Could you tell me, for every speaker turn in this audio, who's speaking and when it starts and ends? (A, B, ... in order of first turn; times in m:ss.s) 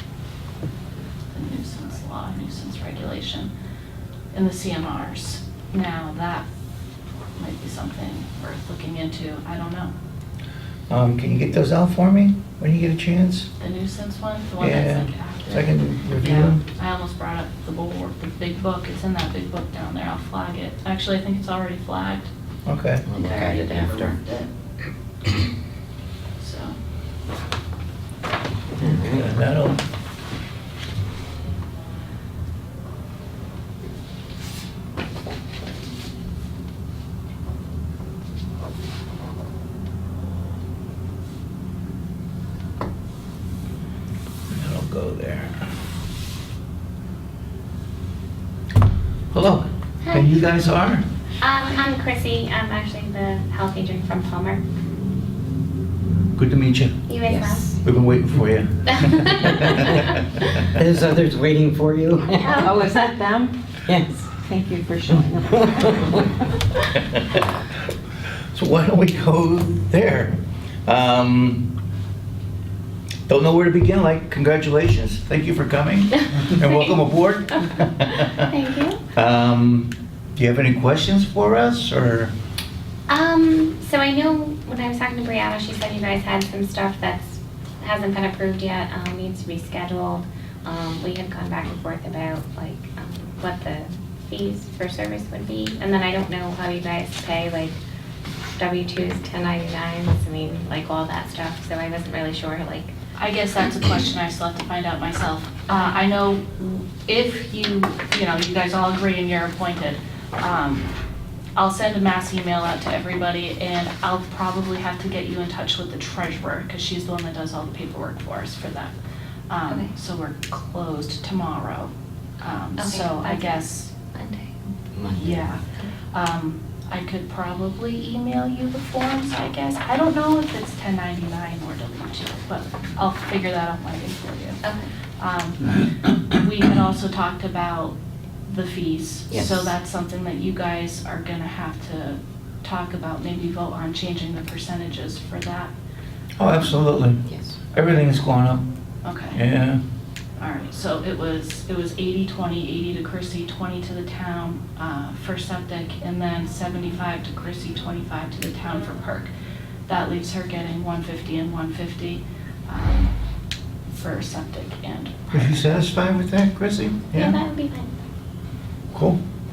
0:01.3-0:03.5 A
0:04.3-0:06.4 A
0:07.4-0:09.9 A
0:10.9-0:13.5 B
0:13.6-0:22.3 A
0:14.6-0:16.6 B
0:22.6-0:23.0 B
0:23.0-0:24.2 C
0:23.1-0:24.5 A
0:26.4-0:26.7 A
0:28.8-0:29.4 C
0:28.8-0:29.8 B
0:44.5-0:45.6 B
0:49.3-0:51.0 B
0:50.0-0:50.3 D
0:51.4-0:54.6 D
0:56.4-0:57.1 B
0:57.1-0:57.8 D
0:57.3-0:57.6 E
0:57.8-1:00.1 B
0:59.0-1:00.0 D
1:00.7-1:03.0 C
1:02.4-1:02.7 D
1:02.5-1:03.5 E
1:03.9-1:04.4 C
1:04.4-1:06.1 E
1:07.0-1:07.4 B
1:08.5-1:11.7 B
1:13.3-1:18.4 B
1:18.4-1:19.0 D
1:19.1-1:22.3 B
1:23.1-1:37.8 D
1:38.5-1:42.9 D
1:43.2-1:50.9 A
1:51.6-1:59.0 A
1:59.5-2:03.9 A
2:02.8-2:03.6 D
2:04.1-2:04.5 D
2:04.9-2:05.6 C
2:05.2-2:05.6 A
2:06.1-2:14.6 A
2:15.2-2:25.7 A
2:19.3-2:19.7 C
2:26.4-2:28.6 B
2:27.2-2:27.6 C
2:29.0-2:29.4 A
2:29.3-2:29.8 B
2:30.4-2:39.3 A
2:39.9-2:43.1 A
2:43.9-2:45.8 A
2:45.3-2:47.4 B
2:47.1-2:47.9 D
2:48.9-2:49.2 B